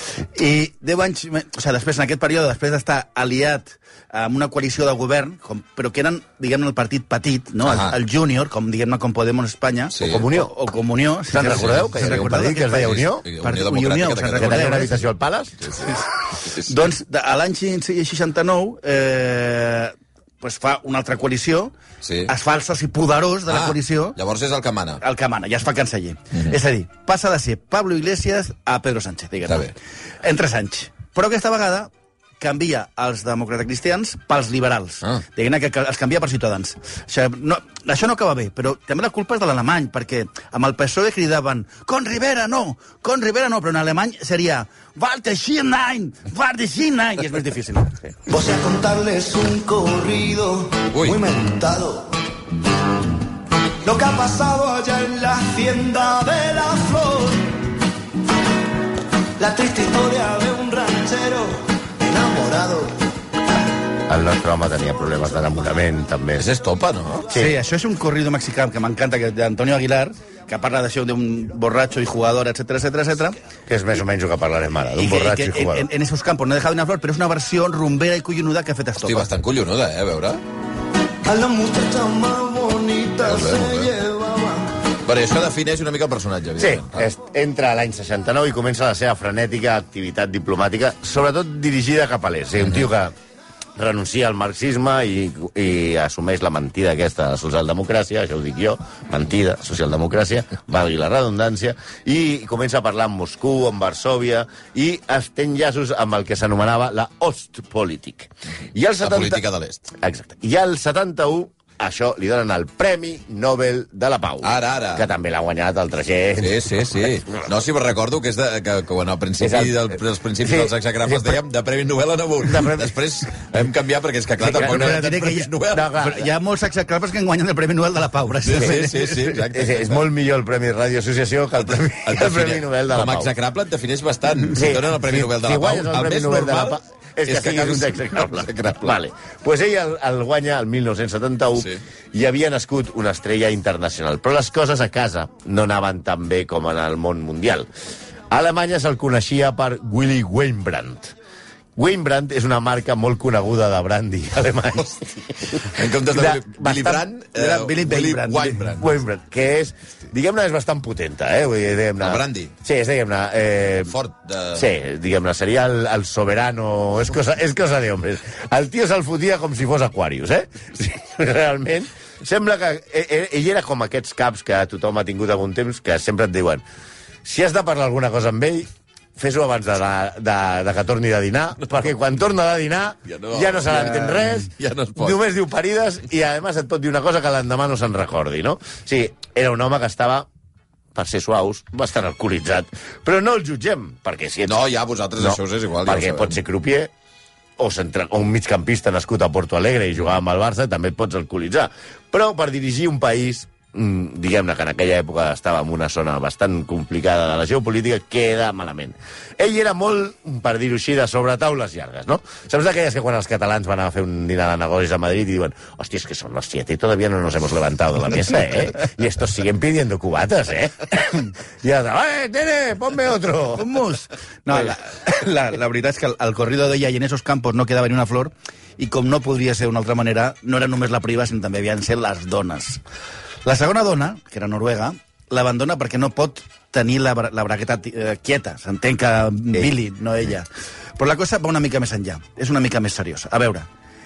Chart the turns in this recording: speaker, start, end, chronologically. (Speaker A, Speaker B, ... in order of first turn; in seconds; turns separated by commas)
Speaker A: 0.3-14.9, Speaker B: 7.6-8.0, Speaker B: 9.9-10.3, Speaker C: 10.0-10.5, Speaker C: 11.3-13.2, Speaker B: 11.4-14.9, Speaker C: 14.4-15.6, Speaker B: 15.6-15.9, Speaker A: 16.6-21.7, Speaker B: 22.0-22.3, Speaker A: 22.3-24.2, Speaker B: 23.5-25.0, Speaker A: 25.0-47.9, Speaker D: 48.3-52.1, Speaker B: 50.9-51.2, Speaker D: 53.8-57.6, Speaker D: 59.4-63.0, Speaker C: 64.1-66.5, Speaker B: 66.4-67.3, Speaker C: 67.3-67.6, Speaker A: 67.3-73.4, Speaker C: 73.7-75.9, Speaker A: 75.0-79.3, Speaker B: 79.0-80.4, Speaker D: 81.2-84.8, Speaker B: 83.2-83.9, Speaker B: 85.0-87.0, Speaker C: 86.6-93.1, Speaker C: 93.8-117.4, Speaker B: 109.0-109.8, Speaker B: 114.4-115.1, Speaker B: 116.4-126.0, Speaker C: 119.4-121.4, Speaker C: 122.5-123.0, Speaker A: 124.4-129.3, Speaker C: 124.5-125.0, Speaker C: 125.7-126.3, Speaker B: 128.4-130.0, Speaker C: 129.5-133.3, Speaker B: 132.0-139.0, Speaker C: 134.5-147.7, Speaker C: 148.3-151.1, Speaker C: 151.8-157.1, Speaker B: 155.6-158.9, Speaker A: 157.3-158.8, Speaker C: 158.8-163.9, Speaker B: 162.0-162.5, Speaker B: 163.7-164.7, Speaker C: 164.5-176.6, Speaker C: 177.2-190.3, Speaker B: 183.1-185.2, Speaker C: 190.9-194.6, Speaker B: 194.5-196.4, Speaker C: 195.2-196.9, Speaker C: 197.6-223.7, Speaker A: 223.6-232.8, Speaker A: 233.4-243.7